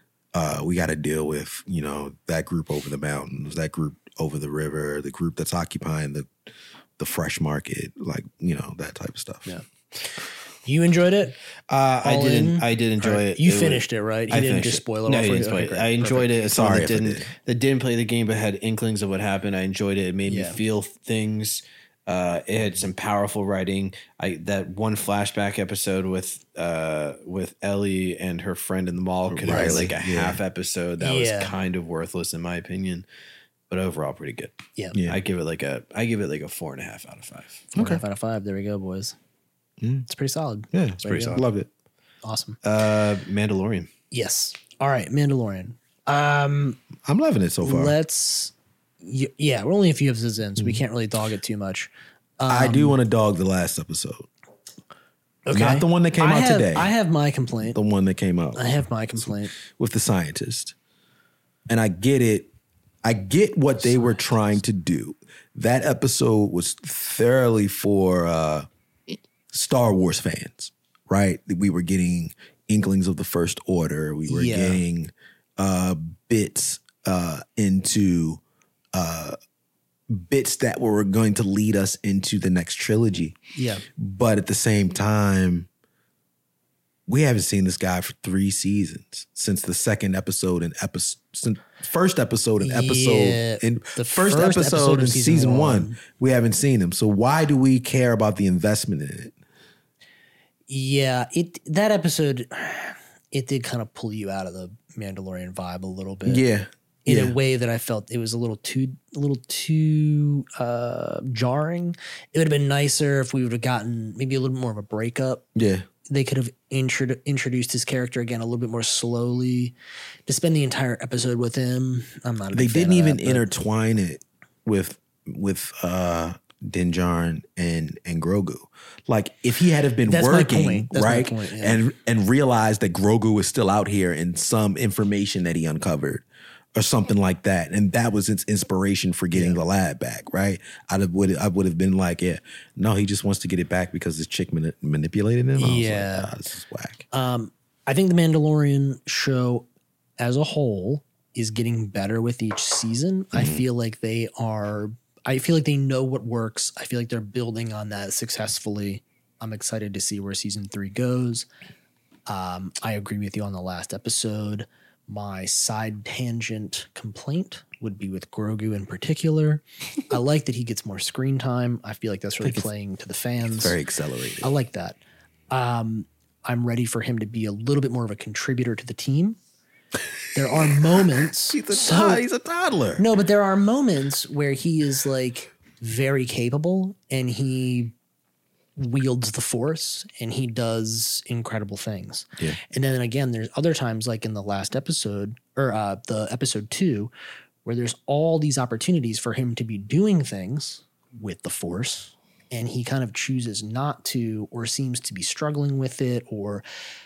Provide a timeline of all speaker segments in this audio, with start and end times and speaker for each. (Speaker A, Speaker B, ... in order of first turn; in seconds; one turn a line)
Speaker A: 0.3-6.3
Speaker A: 7.0-9.5
Speaker B: 10.6-11.4
Speaker C: 11.7-33.0
Speaker B: 12.0-16.3
Speaker A: 16.4-17.3
Speaker B: 20.2-20.6
Speaker A: 29.3-30.4
Speaker B: 29.4-29.9
Speaker B: 31.0-31.5
Speaker C: 33.7-37.7
Speaker A: 34.9-35.2
Speaker B: 37.7-39.1
Speaker A: 37.7-38.0
Speaker A: 39.8-40.0
Speaker B: 40.1-41.4
Speaker A: 40.7-41.7
Speaker C: 41.0-41.4
Speaker B: 42.2-42.6
Speaker C: 42.6-43.9
Speaker B: 44.1-46.8
Speaker A: 47.0-48.0
Speaker B: 47.6-53.0
Speaker A: 52.5-54.3
Speaker B: 55.5-57.8
Speaker A: 55.5-56.9
Speaker A: 57.7-60.7
Speaker B: 58.5-59.5
Speaker A: 61.7-62.5
Speaker A: 63.0-68.7
Speaker B: 64.0-64.3
Speaker A: 69.5-78.4
Speaker B: 74.3-74.8
Speaker A: 78.9-79.3
Speaker A: 80.1-83.4
Speaker B: 83.5-83.8
Speaker A: 84.0-85.7
Speaker A: 87.1-99.3
Speaker B: 92.6-96.0
Speaker B: 100.7-106.5
Speaker A: 106.2-107.4
Speaker B: 107.0-115.4
Speaker A: 115.5-115.8
Speaker B: 116.1-119.7
Speaker B: 120.3-123.5
Speaker A: 122.5-147.1
Speaker B: 130.1-131.8
Speaker B: 139.3-139.6
Speaker B: 145.6-146.3
Speaker B: 147.1-149.7
Speaker B: 150.2-161.4
Speaker A: 153.3-153.6
Speaker B: 162.3-173.8
Speaker A: 172.4-172.7
Speaker A: 173.5-174.5
Speaker B: 174.4-175.0
Speaker B: 175.5-179.4
Speaker B: 180.3-182.2
Speaker A: 180.6-183.0
Speaker B: 183.0-187.9
Speaker B: 188.8-197.1
Speaker B: 197.6-206.6